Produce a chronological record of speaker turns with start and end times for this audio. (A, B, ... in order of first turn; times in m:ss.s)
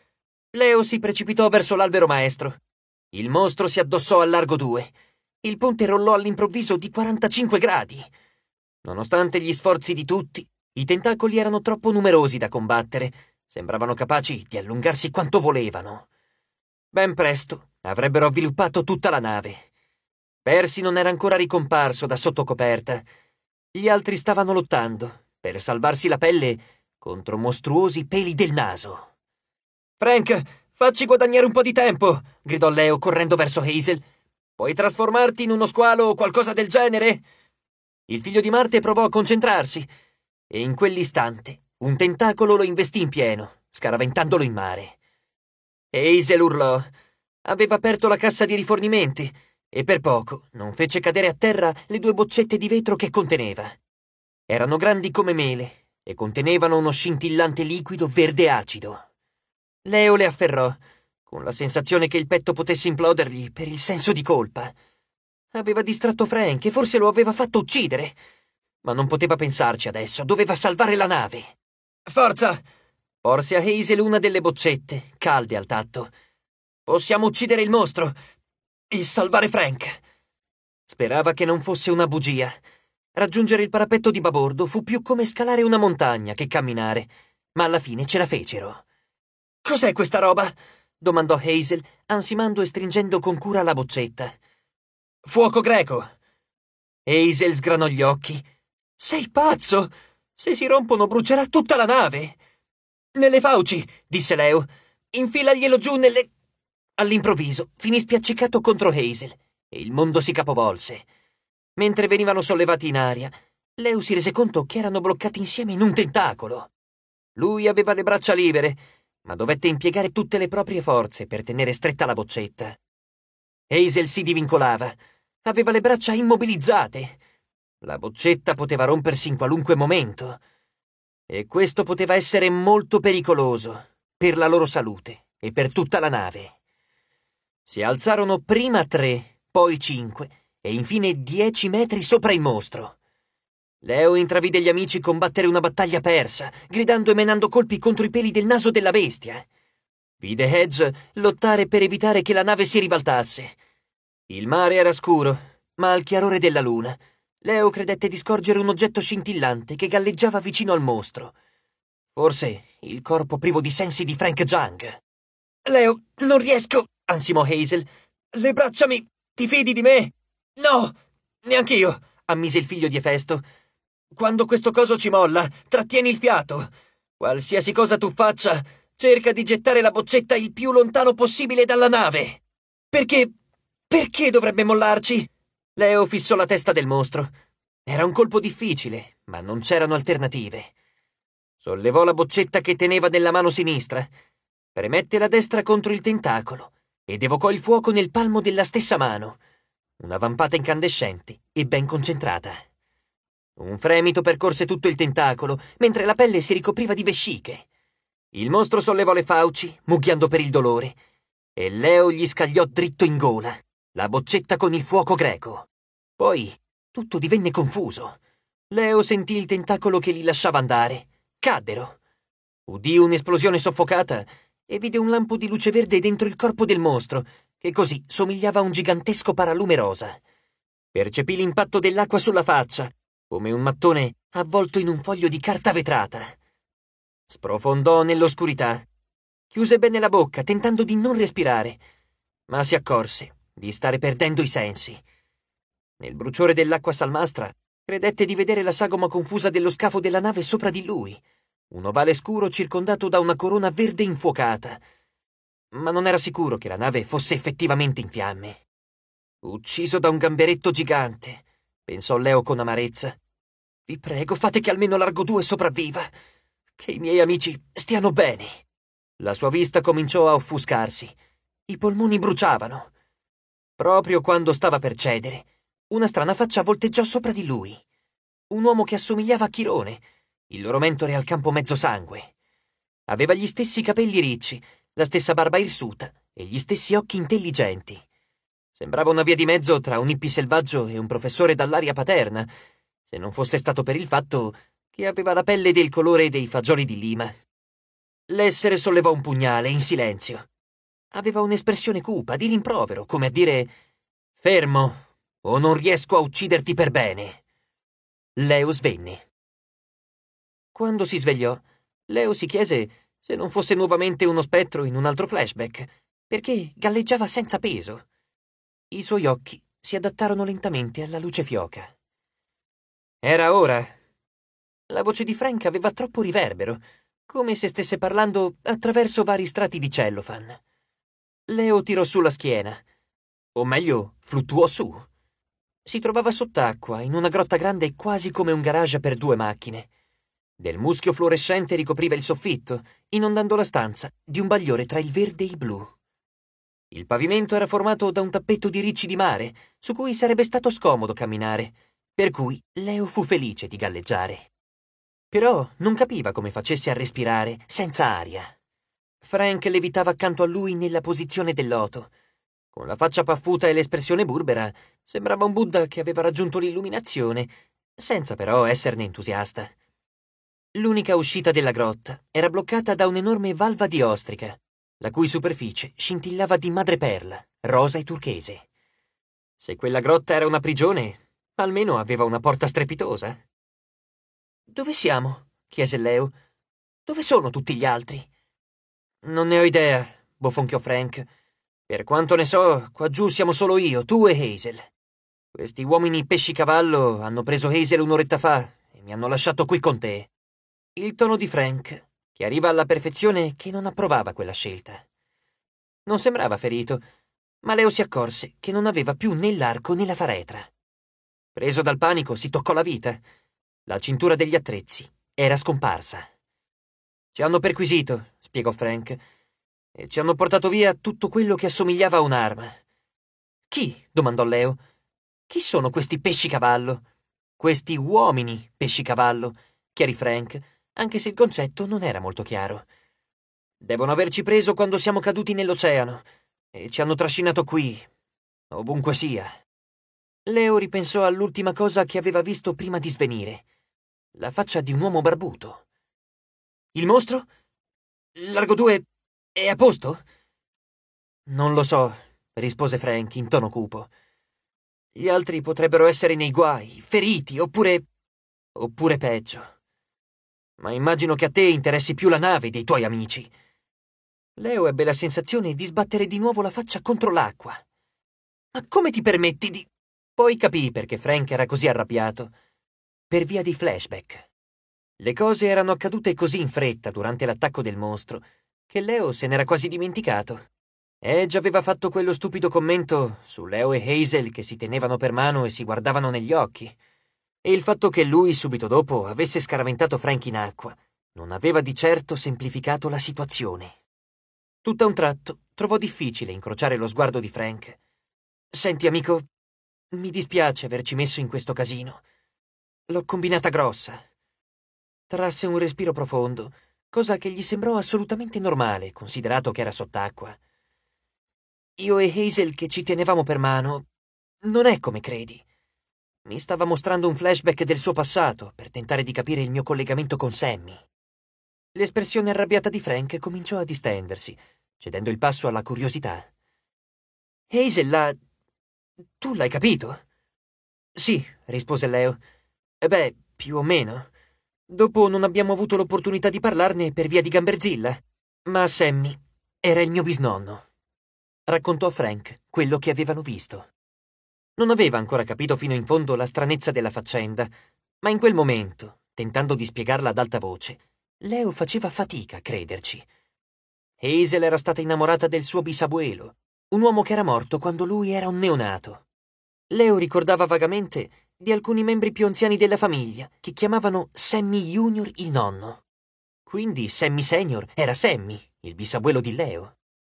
0:00.5-0:02.6 A
0:03.1-0:04.9 A
0:05.4-0:08.1 A
0:08.8-0:16.1 A
0:16.9-0:19.7 A
0:20.4-0:23.0 A
0:23.7-0:29.1 A
0:30.0-0:34.0 A
0:34.6-0:37.2 A
0:38.1-0:39.9 A
0:40.5-0:45.0 A
0:45.9-0:46.9 A
0:47.4-0:53.8 A
0:54.5-0:59.0 A
0:59.8-1:04.7 A
1:05.5-1:08.2 A
1:08.8-1:11.6 A
1:12.1-1:12.6 A
1:13.2-1:16.1 A
1:16.9-1:18.2 A
1:18.9-1:20.0 A
1:20.9-1:22.6 A
1:23.2-1:28.8 A
1:29.6-1:34.4 A
1:35.2-1:36.1 A
1:37.1-1:38.4 A
1:39.0-1:42.4 A
1:43.2-1:46.3 A
1:47.0-1:51.1 A
1:51.8-1:56.7 A
1:57.4-2:02.8 A
2:03.7-2:07.2 A
2:07.8-2:10.4 A
2:11.3-2:16.6 A
2:17.7-2:23.0 A
2:23.8-2:29.5 A
2:30.2-2:33.6 A
2:34.3-2:41.4 A
2:42.2-2:45.0 A
2:45.6-2:53.4 A
2:54.1-2:56.7 A
2:57.2-3:03.3 A
3:03.9-3:07.3 A
3:07.9-3:10.7 A
3:11.6-3:14.1 A
3:14.8-3:19.4 A
3:20.0-3:22.6 A
3:23.6-3:27.7 A
3:28.3-3:31.0 A
3:31.6-3:38.2 A
3:38.7-3:42.0 A
3:42.7-3:50.2 A
3:50.9-3:56.4 A
3:57.3-3:58.9 A
3:59.5-4:01.8 A
4:02.5-4:05.0 A
4:06.0-4:14.8 A
4:15.7-4:18.6 A
4:19.4-4:23.2 A
4:23.9-4:26.1 A
4:26.8-4:28.5 A
4:29.2-4:31.1 A
4:31.7-4:32.9 A
4:33.8-4:37.8 A
4:38.5-4:42.3 A
4:43.1-4:48.0 A
4:48.8-4:52.5 A
4:53.1-4:57.3 A
4:58.3-5:00.5 A
5:01.1-5:03.7 A
5:04.4-5:07.4 A
5:08.4-5:09.3 A
5:10.8-5:18.0 A
5:18.9-5:21.9 A
5:23.2-5:24.0 A
5:24.9-5:30.6 A
5:31.5-5:32.8 A
5:33.6-5:35.1 A
5:35.9-5:39.9 A
5:40.6-5:45.9 A
5:46.9-5:54.5 A
5:55.3-5:58.6 A
5:59.2-6:02.1 A
6:02.7-6:09.7 A
6:10.8-6:18.6 A
6:19.6-6:23.4 A
6:24.7-6:26.3 A
6:27.1-6:28.3 A
6:29.2-6:31.3 A
6:31.9-6:34.9 A
6:35.5-6:40.3 A
6:41.0-6:45.0 A
6:46.1-6:47.0 A
6:47.6-6:50.7 A
6:51.6-6:53.2 A
6:53.9-6:56.3 A
6:57.3-6:59.2 A
7:00.0-7:02.8 A
7:03.7-7:04.8 A
7:05.5-7:07.0 A
7:07.6-7:12.9 A
7:13.8-7:18.1 A
7:18.7-7:19.6 A
7:20.5-7:23.6 A
7:24.4-7:25.8 A
7:26.9-7:27.5 A
7:28.4-7:30.2 A
7:31.5-7:34.1 A
7:35.2-7:38.1 A
7:38.8-7:39.7 A
7:40.8-7:43.5 A
7:44.6-7:47.8 A
7:48.7-7:52.5 A
7:53.3-7:54.5 A
7:55.2-8:00.7 A
8:01.2-8:07.0 A
8:07.6-8:14.0 A
8:14.8-8:18.0 A
8:18.7-8:19.5 A
8:20.1-8:22.2 A
8:23.1-8:24.2 A
8:25.3-8:30.6 A
8:32.0-8:34.1 A
8:34.6-8:35.6 A
8:36.4-8:41.0 A
8:42.0-8:46.5 A
8:47.7-8:48.4 A
8:49.4-8:50.2 A
8:51.2-8:52.4 A
8:53.0-8:54.3 A
8:54.9-9:00.8 A
9:01.7-9:03.9 A
9:04.8-9:07.7 A
9:08.2-9:13.3 A
9:14.2-9:19.2 A
9:19.9-9:26.0 A
9:26.7-9:30.0 A